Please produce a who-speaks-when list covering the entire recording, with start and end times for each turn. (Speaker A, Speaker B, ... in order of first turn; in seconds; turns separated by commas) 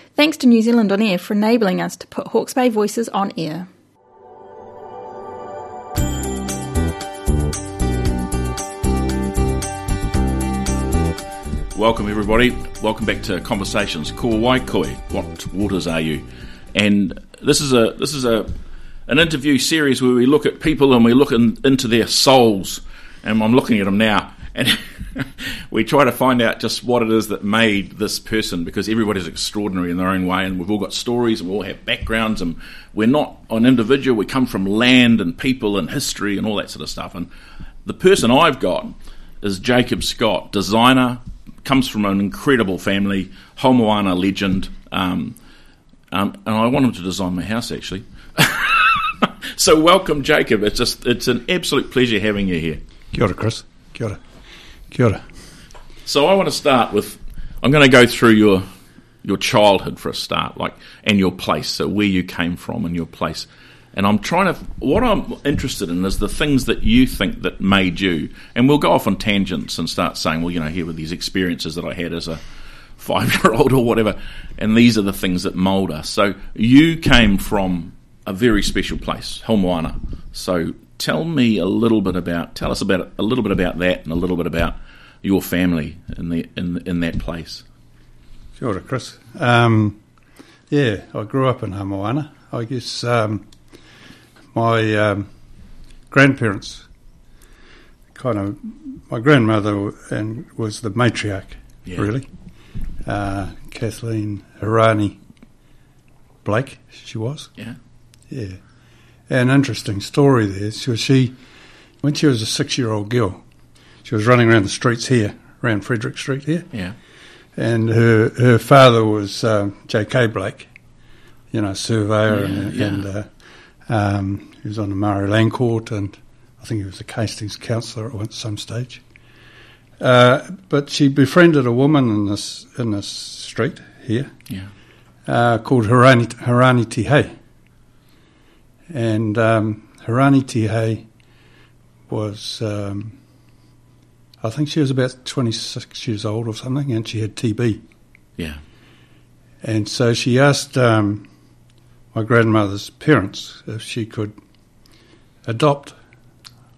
Speaker A: 0.1-3.7, Speaker B: 11.7-18.5, Speaker B: 19.1-37.3, Speaker B: 37.8-45.4, Speaker B: 46.1-52.8, Speaker C: 53.1-54.2, Speaker C: 54.9-55.2, Speaker B: 56.0-58.6, Speaker B: 59.2-72.4, Speaker B: 73.0-87.6, Speaker C: 88.6-90.0, Speaker C: 90.7-93.5, Speaker C: 94.5-95.3, Speaker C: 96.1-96.8, Speaker C: 98.1-102.3, Speaker C: 103.0-105.2, Speaker C: 106.4-107.5, Speaker C: 108.3-108.6, Speaker C: 109.3-111.3, Speaker C: 112.0-113.4, Speaker C: 114.0-116.7, Speaker C: 117.5-120.7, Speaker C: 121.5-123.3, Speaker B: 122.3-123.1, Speaker C: 123.9-129.0, Speaker C: 130.0-134.3, Speaker C: 135.2-137.3, Speaker C: 138.9-141.1, Speaker C: 142.1-143.2, Speaker C: 144.4-147.8, Speaker C: 149.6-151.3, Speaker C: 152.1-154.3, Speaker C: 155.4-155.9